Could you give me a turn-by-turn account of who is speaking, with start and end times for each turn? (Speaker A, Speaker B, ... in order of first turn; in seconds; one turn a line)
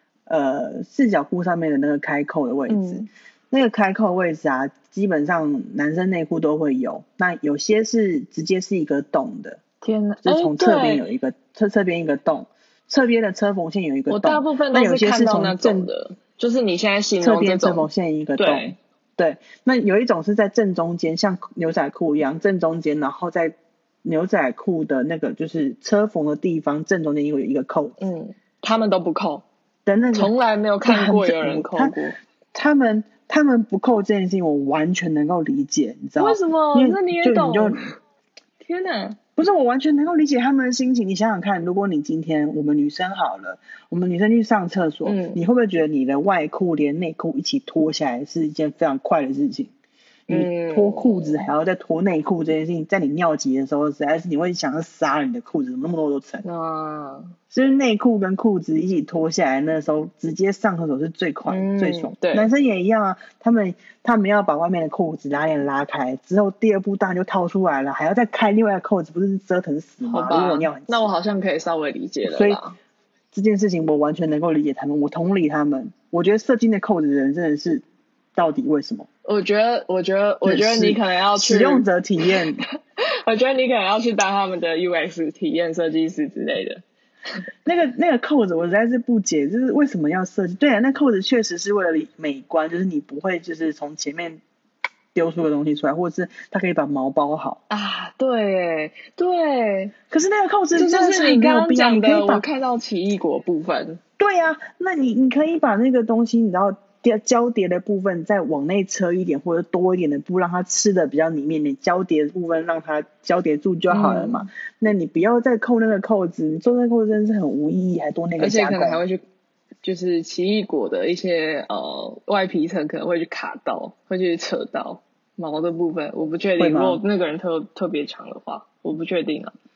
Speaker A: 0.3-9.6
Speaker B: 2.7-3.0
Speaker B: 9.8-11.0
Speaker A: 10.2-15.9
Speaker B: 14.1-18.7
Speaker A: 17.2-28.0
Speaker B: 28.0-29.4
Speaker A: 29.9-30.3
Speaker B: 30.1-32.2
Speaker A: 30.8-32.0
Speaker A: 32.5-37.9
Speaker B: 36.2-37.9
Speaker B: 38.6-39.2
Speaker A: 39.4-49.7
Speaker B: 45.0-45.4
Speaker B: 50.3-51.5
Speaker A: 50.3-56.4
Speaker B: 56.4-57.3
Speaker A: 57.5-71.1
Speaker B: 61.5-62.5
Speaker B: 70.0-72.8
Speaker A: 72.2-72.6
Speaker A: 73.3-77.8
Speaker A: 78.3-79.1
Speaker B: 79.2-82.4
Speaker A: 80.4-82.6
Speaker B: 83.0-86.8
Speaker A: 87.6-94.4
Speaker A: 95.1-97.6
Speaker B: 97.7-99.9
Speaker A: 100.1-102.4
Speaker B: 100.7-104.0
Speaker A: 104.2-119.0
Speaker B: 113.9-114.5
Speaker B: 118.4-119.2
Speaker B: 119.8-129.5
Speaker A: 126.6-127.0